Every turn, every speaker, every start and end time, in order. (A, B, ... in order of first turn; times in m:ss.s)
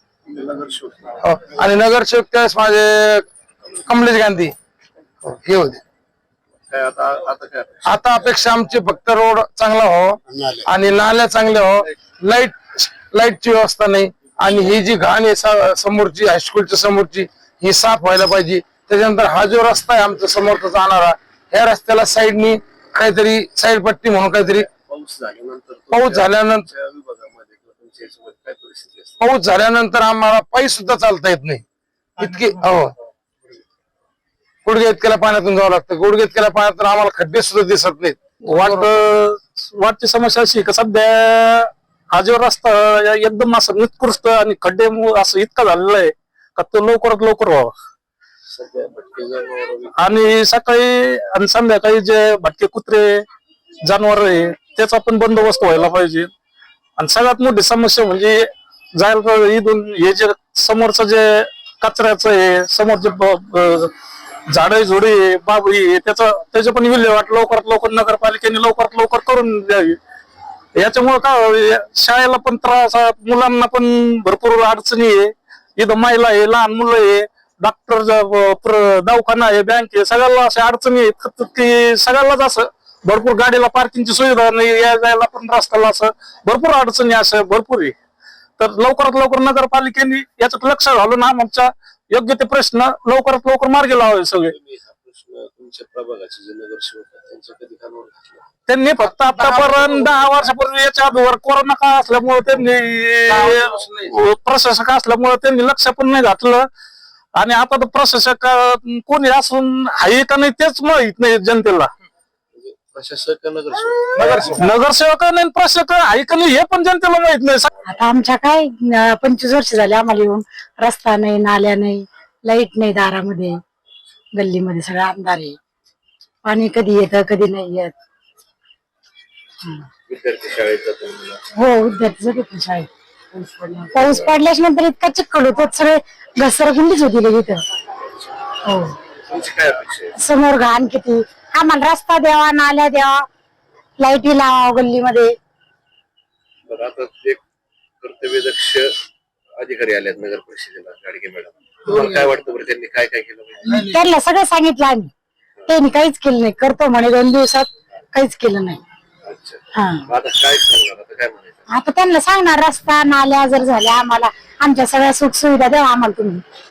0:00.3-0:01.2 A
0:01.2-0:03.3 B
0:03.8-0:04.5 B
0:05.2-0:05.8 B
0:06.7-0:07.9 A
0:07.9-0:24.7 B
0:24.6-0:29.2 A
0:25.9-0:26.7 B
0:29.2-0:31.6 B
0:32.2-0:32.9 B
0:34.6-0:38.9 B
0:38.5-0:47.7 C
0:48.5-0:49.9 A
0:50.0-0:53.2 C
0:53.8-0:56.3 C
0:57.0-1:03.9 C
1:04.5-1:10.0 C
1:10.8-1:27.9 C
1:28.6-1:34.6 C
1:34.5-1:38.5 A
1:38.7-1:46.7 C
1:39.4-1:39.9 B
1:43.3-1:44.1 B
1:47.3-1:51.9 C
1:52.6-1:54.5 A
1:54.1-1:54.6 B
1:54.2-1:57.7 C
1:57.9-2:03.6 D
2:04.4-2:05.6 D
2:06.4-2:07.9 D
2:10.1-2:11.4 A
2:11.6-2:12.9 D
2:13.6-2:17.6 D
2:14.0-2:14.2 A
2:19.3-2:20.2 A
2:20.3-2:23.2 D
2:24.0-2:25.3 D
2:26.7-2:27.4 A
2:28.0-2:28.9 A
2:29.6-2:33.8 A
2:33.8-2:35.1 D
2:35.7-2:38.8 D
2:39.2-2:41.7 A
2:41.8-2:46.4 D